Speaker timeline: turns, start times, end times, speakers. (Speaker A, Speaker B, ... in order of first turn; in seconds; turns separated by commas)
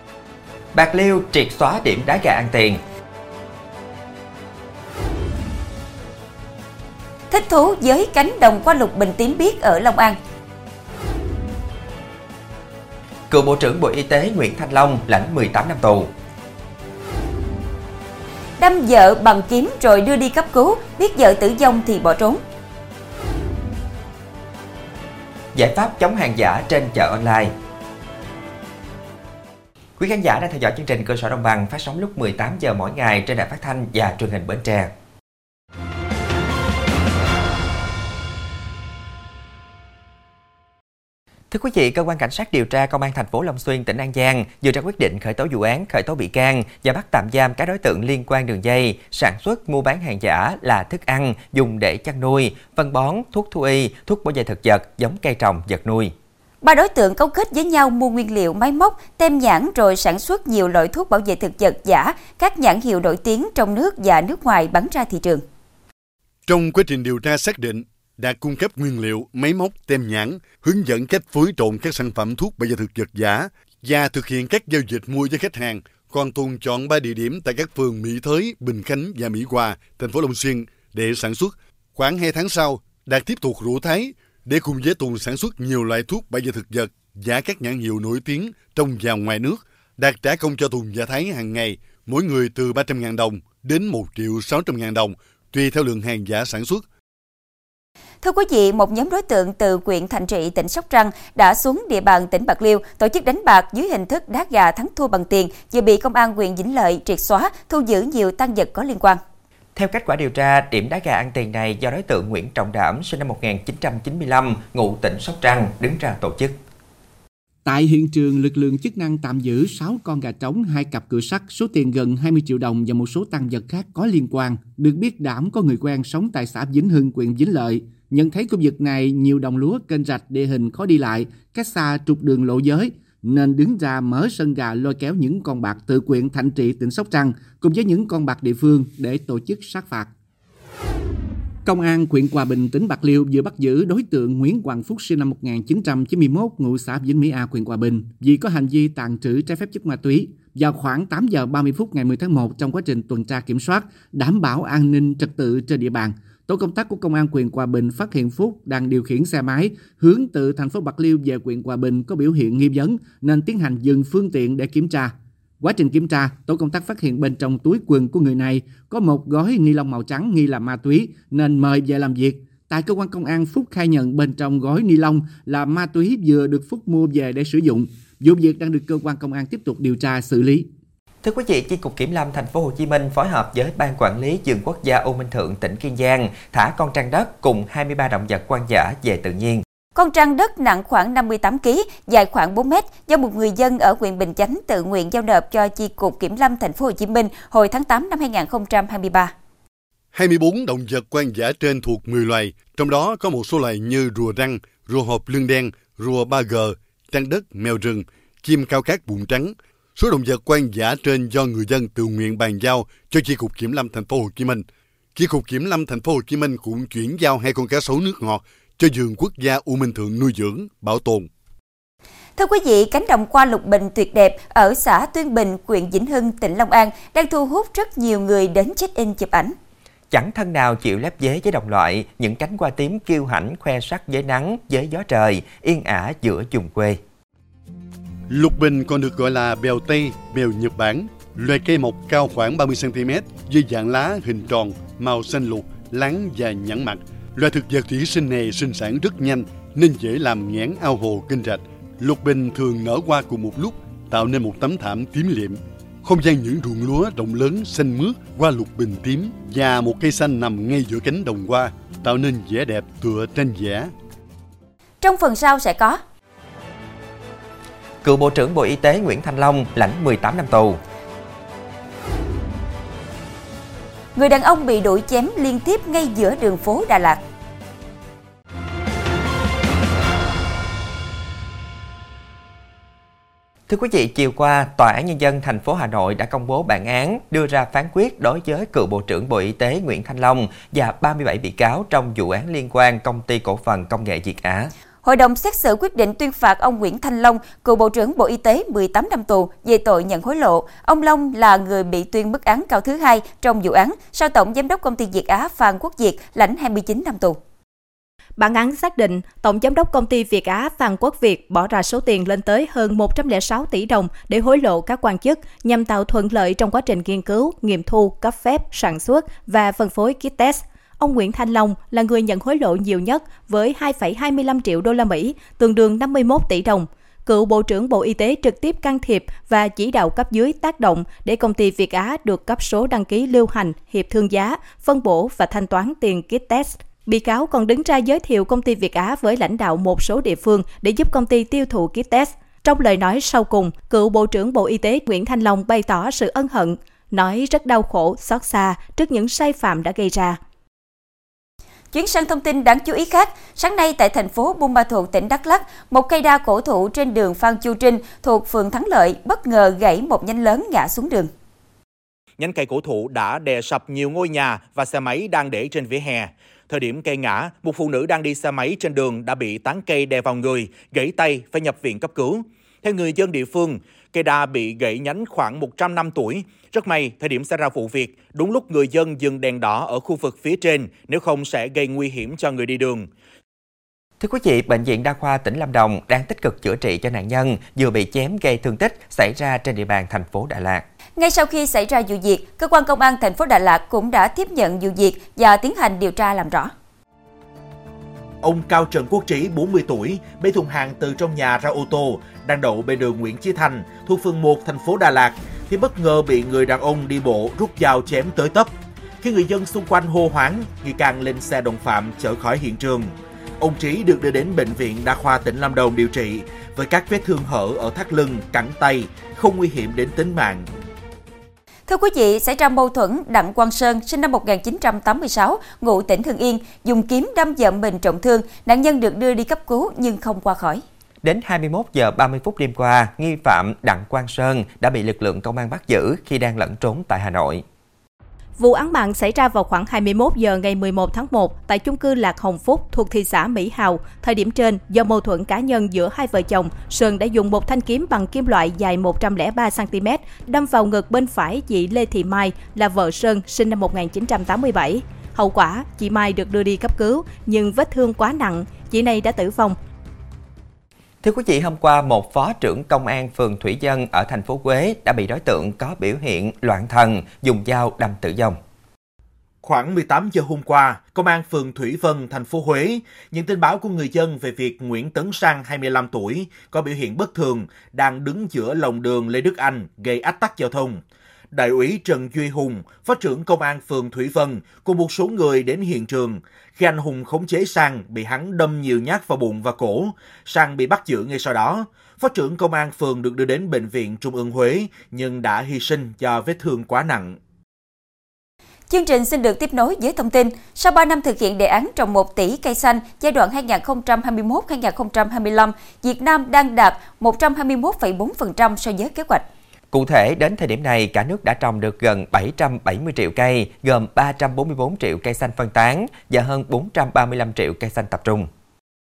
Speaker A: 0.7-2.8, Speaker B: 7.3-10.2, Speaker A: 13.3-16.1, Speaker B: 18.6-22.4, Speaker A: 25.5-27.5, Speaker A: 30.0-34.9, Speaker A: 41.5-56.1, Speaker B: 56.6-65.4, Speaker C: 66.5-96.8, Speaker B: 98.2-109.2, Speaker A: 109.8-116.5, Speaker D: 117.6-140.1, Speaker D: 141.7-180.7, Speaker A: 181.2-189.6, Speaker B: 189.9-199.3, Speaker C: 200.1-214.6, Speaker C: 215.1-221.3, Speaker B: 222.3-229.5, Speaker A: 230.1-237.0, Speaker C: 238.3-263.9, Speaker B: 265.0-266.0, Speaker A: 268.0-270.8, Speaker B: 274.1-277.2, Speaker A: 283.7-294.7, Speaker B: 295.0-307.4, Speaker E: 308.4-350.4, Speaker B: 351.9-361.3, Speaker F: 362.4-383.1, Speaker A: 384.2-390.8, Speaker B: 391.2-396.7, Speaker F: 398.4-420.7, Speaker B: 421.9-430.8, Speaker A: 431.2-437.6, Speaker E: 438.6-459.8, Speaker A: 461.2-468.6, Speaker F: 469.6-481.0, Speaker F: 481.5-497.4, Speaker B: 498.9-509.4, Speaker A: 509.9-518.5